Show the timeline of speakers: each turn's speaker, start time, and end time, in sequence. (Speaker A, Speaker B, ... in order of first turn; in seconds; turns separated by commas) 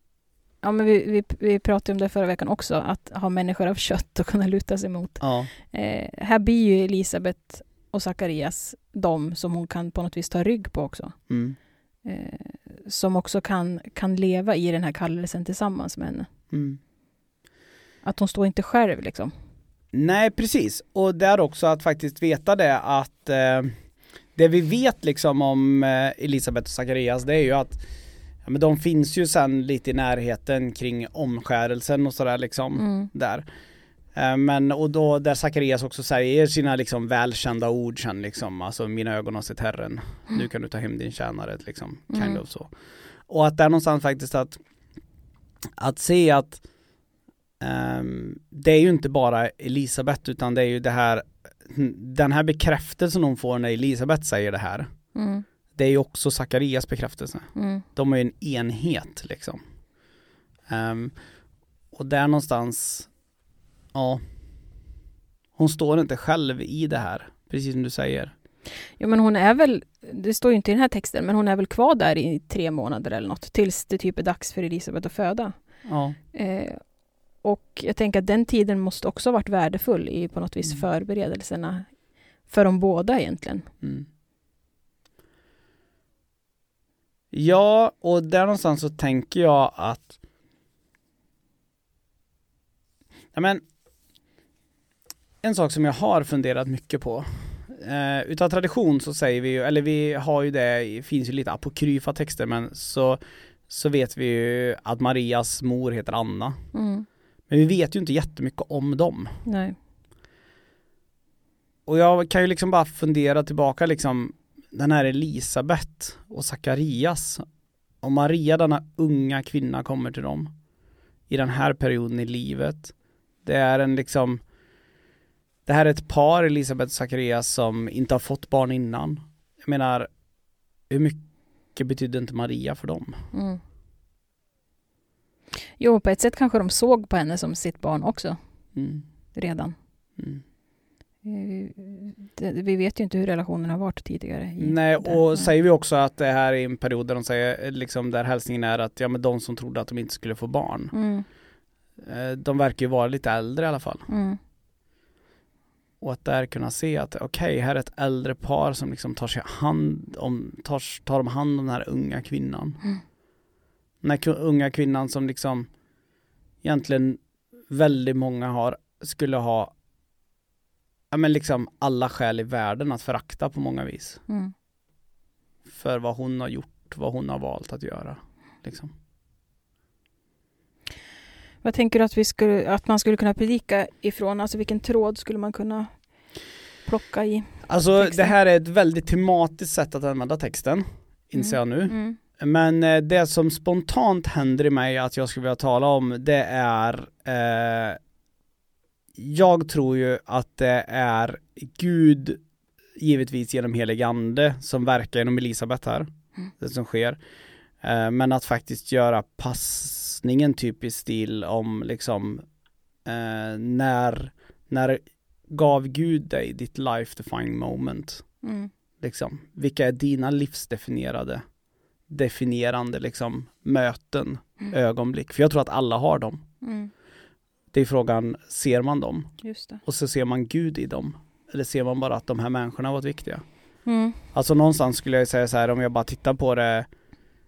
Speaker A: 0.6-11.2, Speaker B: 5.2-5.5, Speaker B: 11.3-11.6, Speaker A: 12.1-16.3, Speaker B: 16.5-16.8, Speaker A: 18.0-19.3, Speaker B: 19.9-23.7, Speaker B: 24.4-27.8, Speaker B: 28.4-33.5, Speaker A: 32.8-33.1, Speaker B: 34.1-42.7, Speaker A: 42.1-42.4, Speaker B: 43.3-44.6, Speaker B: 45.8-46.6, Speaker B: 47.6-54.9, Speaker A: 55.1-55.5, Speaker B: 55.8-59.6, Speaker A: 57.6-57.9, Speaker B: 60.7-61.1, Speaker B: 61.9-63.1, Speaker B: 63.9-64.2, Speaker B: 65.6-68.3, Speaker A: 69.0-75.6, Speaker B: 75.8-76.2, Speaker A: 76.3-76.8, Speaker A: 77.4-81.9, Speaker A: 82.5-83.7, Speaker B: 83.8-84.1, Speaker B: 87.3-90.2, Speaker B: 93.3-93.6, Speaker B: 95.4-106.6, Speaker A: 106.7-107.1, Speaker B: 107.5-109.4, Speaker A: 109.5-109.8, Speaker B: 111.9-117.4, Speaker B: 118.0-120.5, Speaker B: 121.3-122.9, Speaker B: 123.4-124.4, Speaker B: 125.7-130.1, Speaker B: 130.9-131.2, Speaker B: 131.7-133.2, Speaker A: 133.3-133.6, Speaker A: 135.8-138.4, Speaker B: 138.8-139.0, Speaker A: 139.3-139.8, Speaker A: 141.2-145.5, Speaker B: 144.6-150.9, Speaker A: 150.9-151.3, Speaker B: 152.0-154.1, Speaker A: 154.1-154.4, Speaker B: 156.0-162.8, Speaker B: 164.0-165.7, Speaker B: 166.6-169.7, Speaker B: 171.1-174.2, Speaker B: 175.7-178.9, Speaker A: 181.6-185.9, Speaker A: 186.9-188.3, Speaker B: 187.7-198.0, Speaker A: 191.4-192.2, Speaker B: 199.2-202.4, Speaker B: 203.0-206.1, Speaker B: 206.6-207.2, Speaker B: 207.8-212.4, Speaker B: 213.1-218.2, Speaker A: 218.4-218.7, Speaker B: 219.0-221.4, Speaker B: 222.1-226.4, Speaker A: 226.6-226.9, Speaker B: 227.7-229.3, Speaker A: 229.4-229.8, Speaker B: 229.8-233.4, Speaker A: 233.9-234.2, Speaker B: 234.3-236.9